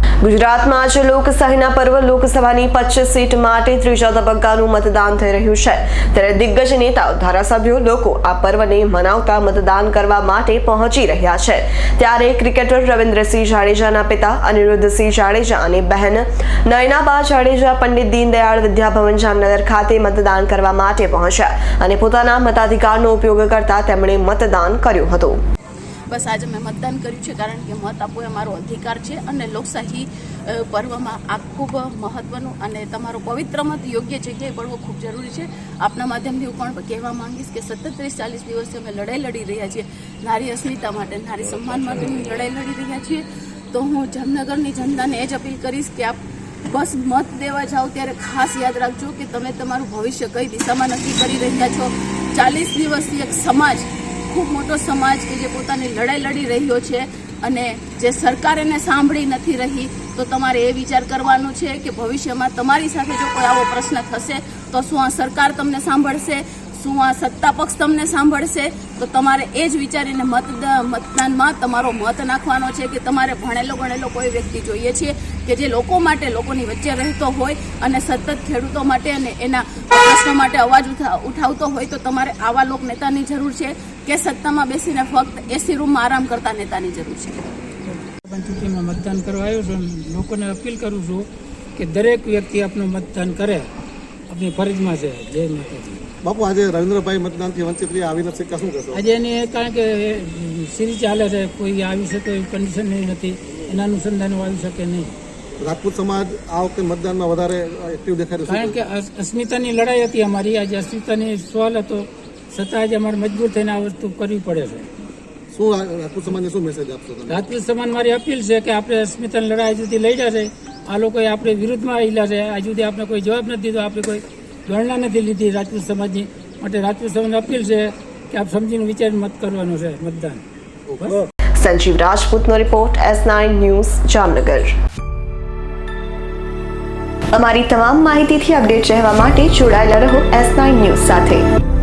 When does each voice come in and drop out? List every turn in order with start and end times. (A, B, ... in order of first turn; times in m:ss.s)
0:00.2-0:25.4 A
0:26.1-1:27.5 B
1:27.9-1:33.7 C
1:34.3-1:36.0 C
1:36.2-1:39.0 D
1:38.9-1:45.1 C
1:45.6-1:48.8 D
1:48.5-1:54.9 C
1:55.5-1:57.5 D
1:57.3-2:10.4 C
2:10.9-2:11.2 C
2:11.6-2:14.8 A
2:17.3-2:21.4 A